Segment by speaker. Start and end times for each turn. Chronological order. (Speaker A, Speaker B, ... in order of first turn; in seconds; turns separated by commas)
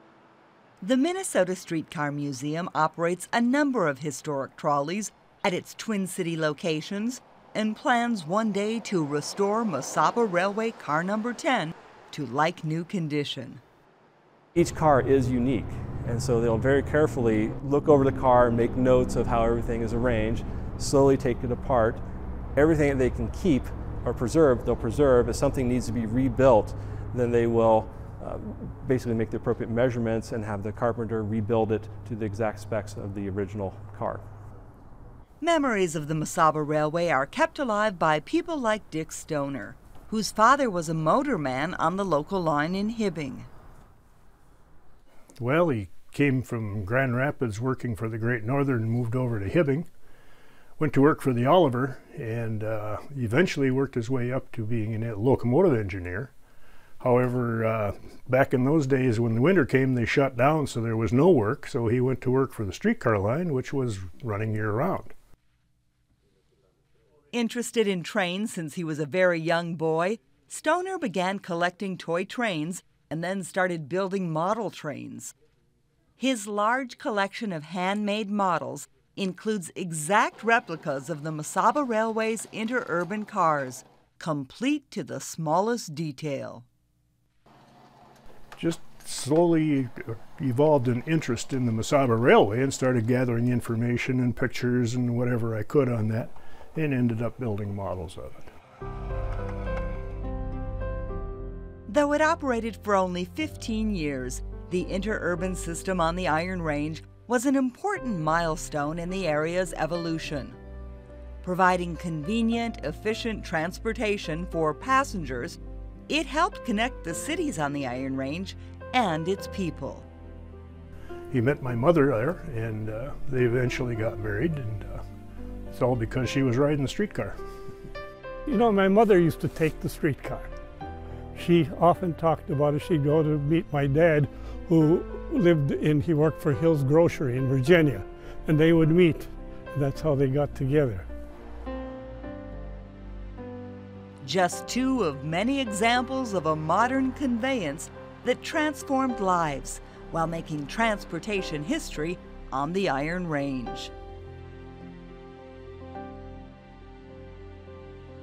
Speaker A: 0.8-13.6, Speaker B: 14.6-22.0, Speaker B: 22.6-34.2, Speaker A: 35.4-43.5, Speaker C: 45.4-49.9, Speaker C: 50.8-56.3, Speaker C: 57.0-65.1, Speaker A: 67.3-75.3, Speaker A: 76.2-86.7, Speaker C: 88.6-98.5, Speaker A: 101.9-110.6, Speaker A: 111.4-120.1, Speaker C: 121.3-125.0, Speaker C: 125.7-127.4, Speaker D: 128.5-130.6, Speaker D: 131.3-141.1, Speaker A: 144.2-153.9